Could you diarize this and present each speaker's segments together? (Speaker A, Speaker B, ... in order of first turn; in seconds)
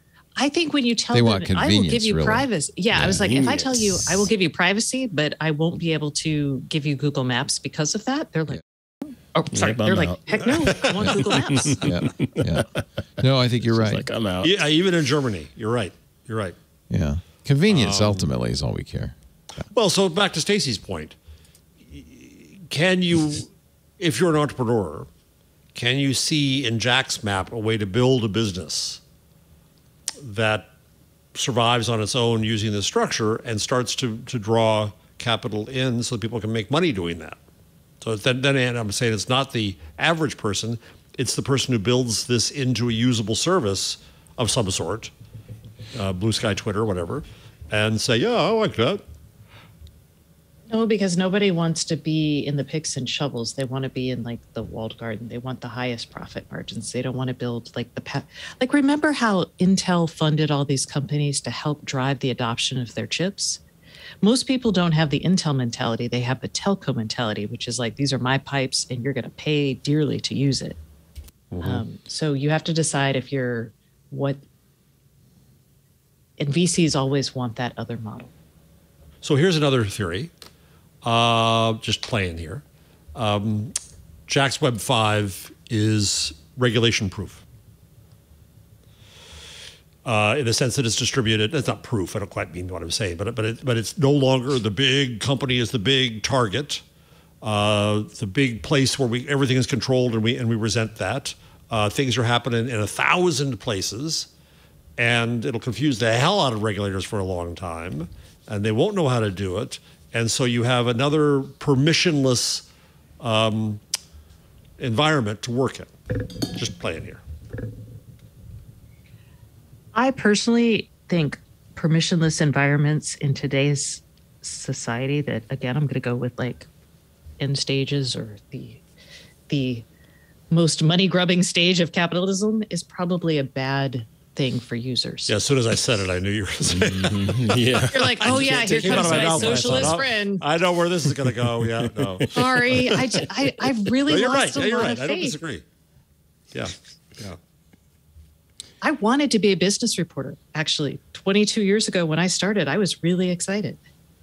Speaker A: 0.4-11.8, 50.7-63.6, 64.2-70.8, 71.6-74.4, 76.4-78.3, 119.9-126.7, 127.4-128.8, 129.5-129.8, 130.5-135.3, 137.9-140.4, 142.3-145.4, 148.8-153.8
Speaker B: 1.1-2.5, 11.8-12.7, 13.2-14.0, 16.9-19.1
Speaker C: 2.9-4.3, 9.5-14.6, 136.6-140.0, 141.7-143.0
Speaker D: 10.5-11.2, 14.4-16.5, 17.7-18.2, 19.7-21.1, 21.9-25.1, 25.7-29.0, 30.2-30.7, 31.3-37.4, 38.0-45.1, 45.9-49.0, 71.5-71.8, 79.2-80.3, 81.0-82.6, 83.1-83.7, 84.3-87.4, 90.0-96.8, 97.4-104.3, 105.0-112.7, 113.2-113.8, 114.8-117.2, 135.3-143.3, 144.1-145.6, 146.5-147.4